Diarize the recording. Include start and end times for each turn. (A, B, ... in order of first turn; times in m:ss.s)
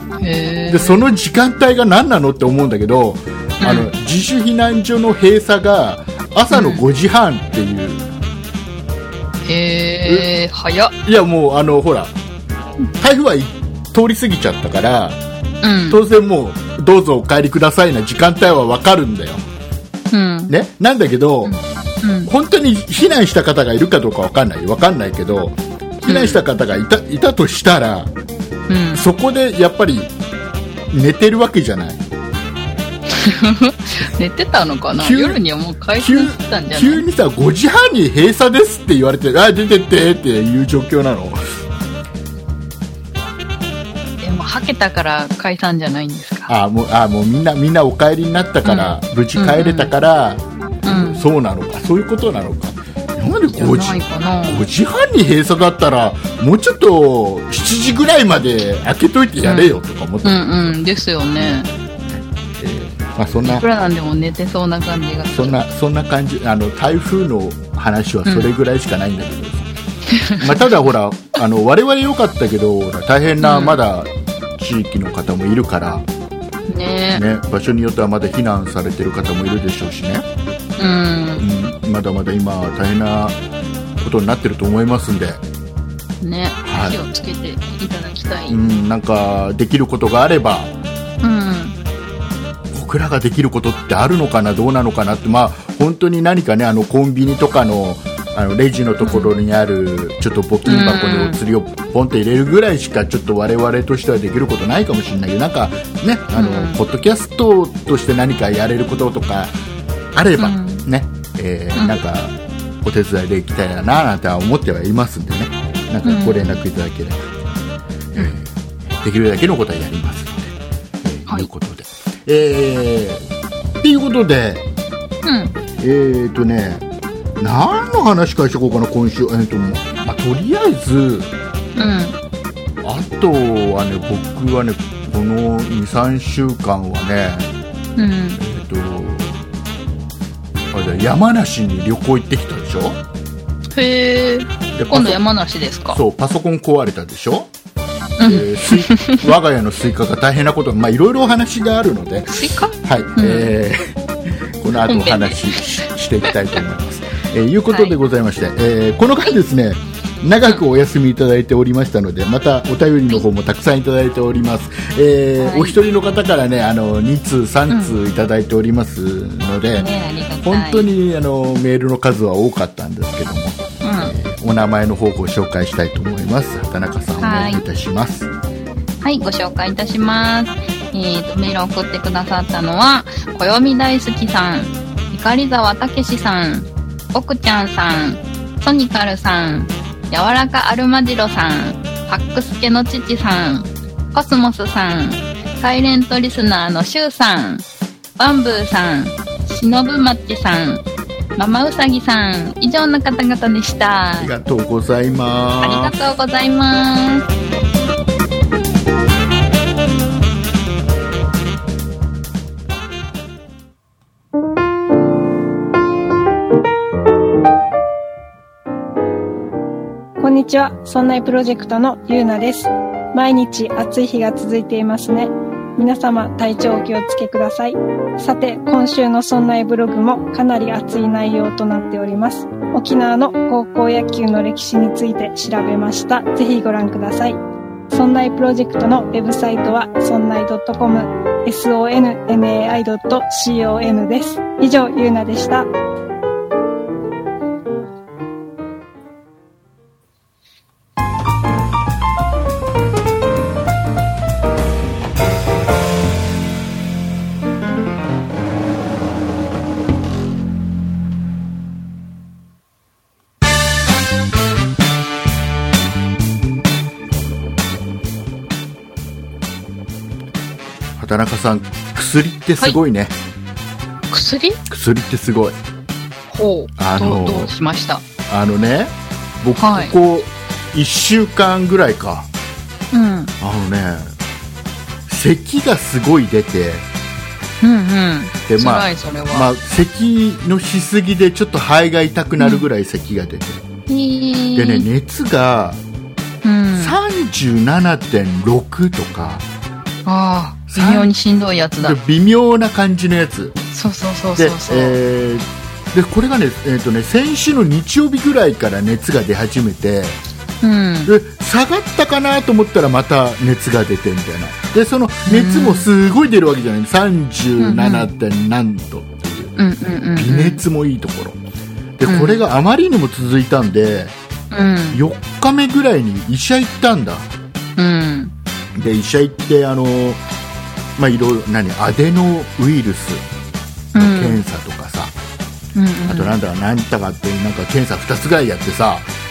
0:00.2-0:01.1 A
0:00.7-0:08.1 B
0:03.6-0:03.9 A
0:06.5-0:06.8 A
0:09.4-0:10.9 A
0:11.0-0:12.1 B
0:13.0-0:15.2 B
0:15.6-0:16.0 A
0:15.9-0:19.4 B
0:20.1-0:20.5 A
0:20.5-0:21.5 B
0:21.4-0:22.3 A
0:22.2-0:28.1 B
0:26.0-0:26.4 A
0:28.7-0:29.0 A
0:28.9-0:30.1 B
0:30.9-0:32.0 B
0:33.1-0:37.0 A
0:35.0-0:35.4 B
0:36.0-0:41.4 B
0:44.2-0:46.5 A
0:46.5-1:00.7 B
0:48.6-0:49.9 A
0:50.8-0:51.2 A
0:53.5-0:54.7 A
0:59.4-1:01.7 A
1:01.4-1:03.6 B
1:03.4-1:05.6 A
1:05.3-1:09.7 B
1:10.1-1:10.6 A
1:10.4-1:16.0 B
1:13.4-1:13.8 A
1:16.7-1:17.2 A
1:17.1-1:20.2 B
1:20.8-1:21.4 A
1:21.4-1:23.4 B
1:24.0-1:25.4 B
1:26.2-1:28.6 A
1:26.6-1:27.0 B
1:28.5-1:30.7 B
1:31.2-1:31.8 A
1:32.7-1:49.5 B
1:39.0-1:39.3 A
1:40.6-1:41.4 A
1:46.3-1:46.8 A
1:50.1-1:57.3 B
1:50.4-1:50.8 A
1:56.0-1:56.6 A
1:58.1-1:58.5 B
1:59.0-2:03.3 B
2:03.8-2:04.6 B
2:05.2-2:05.6 A
2:05.8-2:06.8 B
2:07.4-2:11.3 B
2:11.8-2:12.2 A
2:12.8-2:17.5 B
2:18.0-2:18.4 A
2:18.4-2:19.4 B
2:20.7-2:23.0 B
2:23.7-2:26.0 A
2:24.7-2:25.2 B
2:25.9-2:27.5 B
2:28.2-2:29.2 A
2:28.2-2:33.9 B
2:32.3-2:33.5 A
2:34.6-2:49.9 B
2:34.8-2:35.6 A
2:37.7-2:37.9 A
2:45.4-2:45.8 A
2:47.7-2:48.0 A
2:49.8-2:50.9 A
2:50.4-2:58.3 B
2:53.8-2:54.1 A
2:57.2-2:57.6 A
2:59.0-3:17.6 A
3:18.2-3:20.8 A
3:21.4-3:24.3 A
3:24.2-3:25.9 B
3:25.6-3:27.2 A
3:40.2-3:57.4 C
3:57.9-4:05.7 C
4:31.0-4:33.1 B
4:34.1-4:34.6 A
4:34.7-4:35.6 B
4:36.3-4:38.0 A
4:36.8-4:37.5 B
4:38.3-4:42.3 B
4:39.6-4:39.9 A
4:42.9-4:43.3 A
4:43.4-4:44.1 B
4:45.1-4:46.8 B
4:47.6-4:49.5 A
4:48.5-4:53.6 B
4:52.4-4:52.7 A
4:53.9-4:54.9 A
4:54.6-4:55.8 B
4:56.4-4:57.0 A
4:56.8-4:59.4 B
5:00.0-5:02.0 A
5:00.7-5:01.1 B
5:01.8-5:03.6 B
5:03.7-5:05.0 A
5:04.4-5:10.2 B
5:10.6-5:11.1 A
5:11.0-5:19.6 B
5:15.2-5:15.9 A
5:17.6-5:18.1 A
5:19.6-5:20.6 A
5:20.2-5:21.4 B
5:22.0-5:24.1 B
5:22.0-5:22.4 A
5:24.5-5:25.0 A
5:24.9-5:27.3 B
5:27.8-5:28.3 A
5:28.7-5:30.2 B
5:31.0-5:33.2 B
5:33.9-5:34.4 A
5:33.9-5:35.1 B
5:35.7-5:36.3 A
5:36.0-5:39.1 B